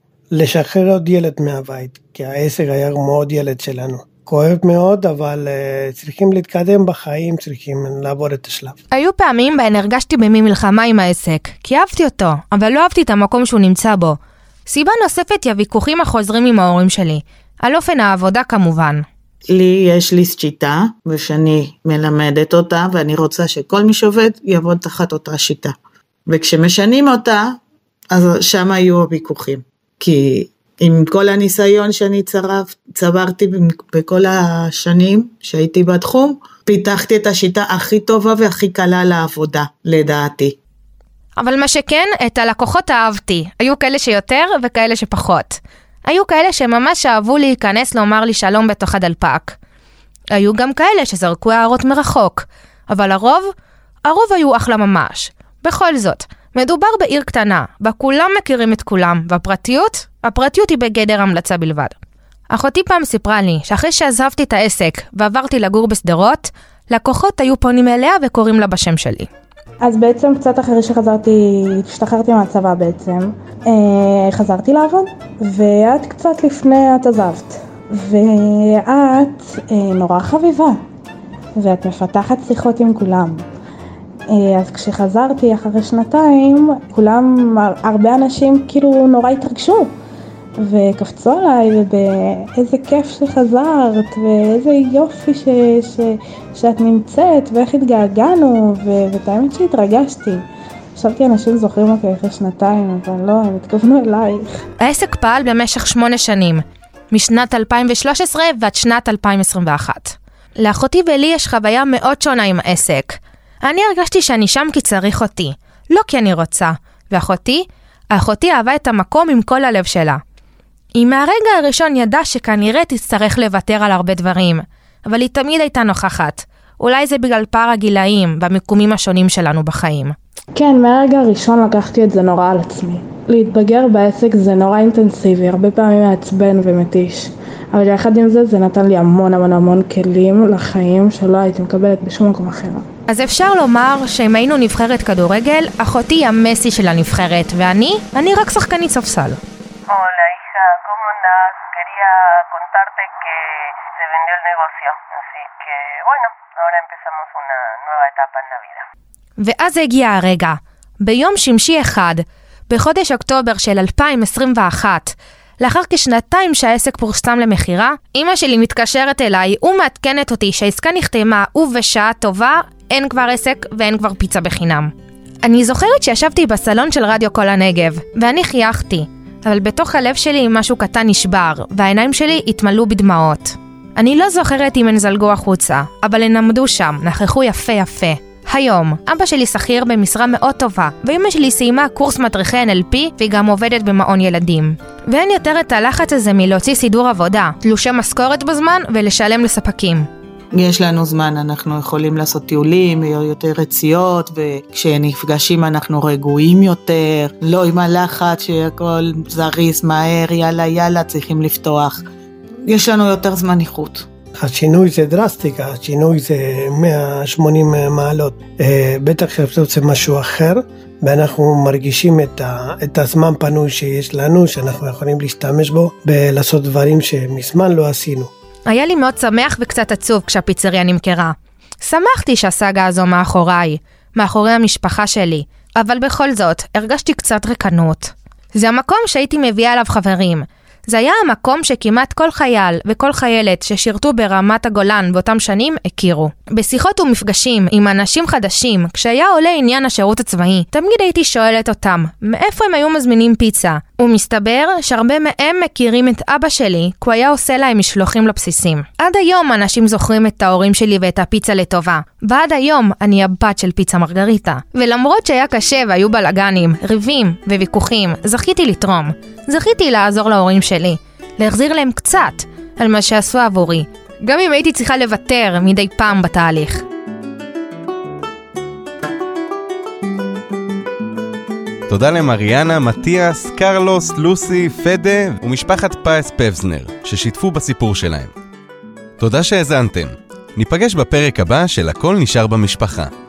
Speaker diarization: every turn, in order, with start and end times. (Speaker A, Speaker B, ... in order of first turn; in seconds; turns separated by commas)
Speaker A: 0.3-8.8, Speaker B: 8.9-19.1, Speaker C: 19.5-25.8, Speaker C: 26.3-27.6, Speaker C: 28.1-40.6, Speaker B: 41.4-49.6, Speaker B: 50.4-53.5, Speaker B: 54.0-61.9, Speaker B: 62.5-69.3, Speaker D: 69.9-80.8, Speaker D: 81.6-83.4, Speaker D: 84.3-89.9, Speaker D: 90.6-100.4, Speaker D: 101.0-104.5, Speaker B: 104.8-120.2, Speaker B: 121.0-130.2, Speaker D: 130.6-142.8, Speaker B: 143.1-149.4, Speaker E: 149.9-158.8, Speaker B: 159.4-174.9, Speaker B: 175.4-200.1, Speaker C: 200.5-212.0, Speaker C: 212.7-214.1, Speaker A: 214.4-228.3, Speaker B: 228.7-276.8, Speaker F: 281.9-288.3, Speaker F: 289.2-293.1